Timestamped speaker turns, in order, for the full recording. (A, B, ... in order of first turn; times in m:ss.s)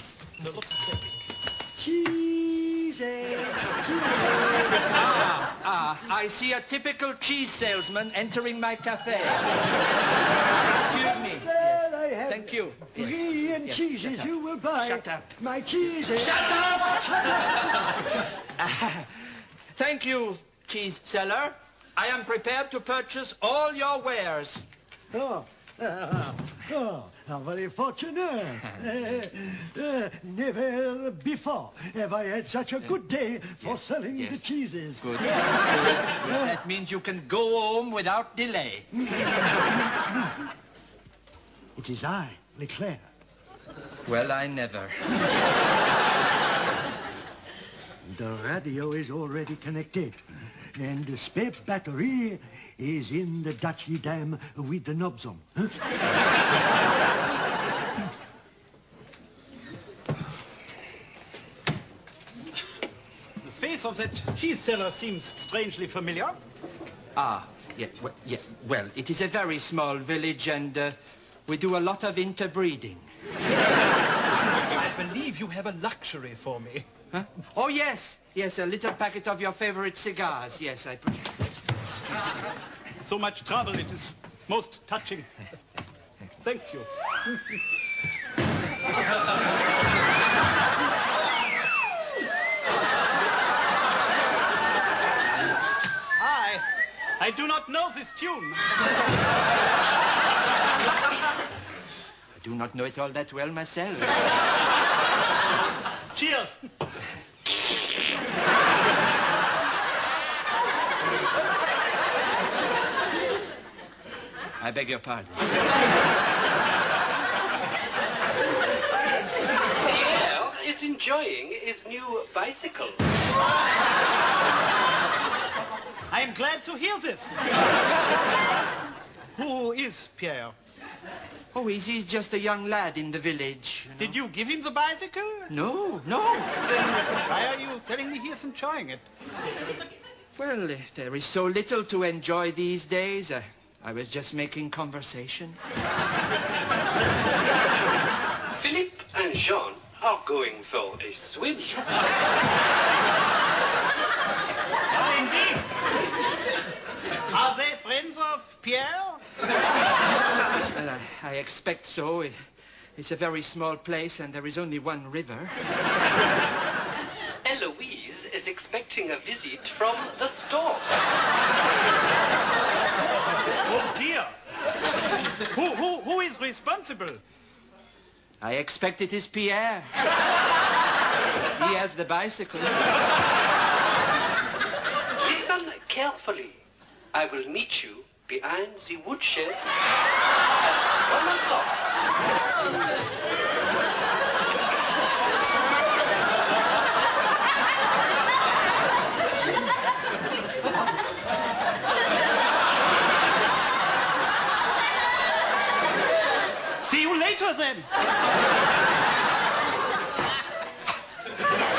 0:00.4-0:01.0 A
0:01.8-0:04.9 B
0:04.9-0:09.6 C
0:10.6-0:15.4 C
0:11.2-0:17.9 B
0:16.1-0:17.3 C
0:18.6-0:24.7 C
0:25.1-0:35.2 B
0:33.6-0:34.4 C
0:35.0-0:38.9 C
0:36.2-0:36.5 B
0:41.8-0:43.1 B
0:44.1-0:45.2 C
0:48.1-0:50.2 B
0:50.8-0:55.8 B
1:03.4-1:06.4 A
1:07.2-1:13.1 C
1:14.5-1:16.9 A
1:17.1-1:21.4 C
1:23.0-1:25.3 A
1:26.4-1:26.9 A
1:36.2-1:36.6 A
1:37.2-1:38.7 A
1:42.4-1:44.2 C
1:46.1-1:46.6 A
1:54.6-1:55.5 C
1:59.8-2:03.1 D
2:06.1-2:07.3 A
2:09.4-2:10.6 A
2:11.5-2:14.2 C
2:14.0-2:15.5 A
2:15.5-2:16.6 C
2:16.7-2:19.1 A
2:20.4-2:25.6 C
2:28.5-2:32.0 D
2:34.9-2:35.7 A
2:37.3-2:39.2 A
2:40.6-2:42.3 C
2:43.0-2:45.6 C
2:47.4-2:51.0 D
2:53.7-2:54.4 A
2:55.5-2:57.2 A
2:58.4-3:00.0 C
3:01.6-3:02.9 C
3:05.2-3:06.6 D
3:07.1-3:09.7 D
3:10.9-3:11.8 D
3:26.8-3:27.9 A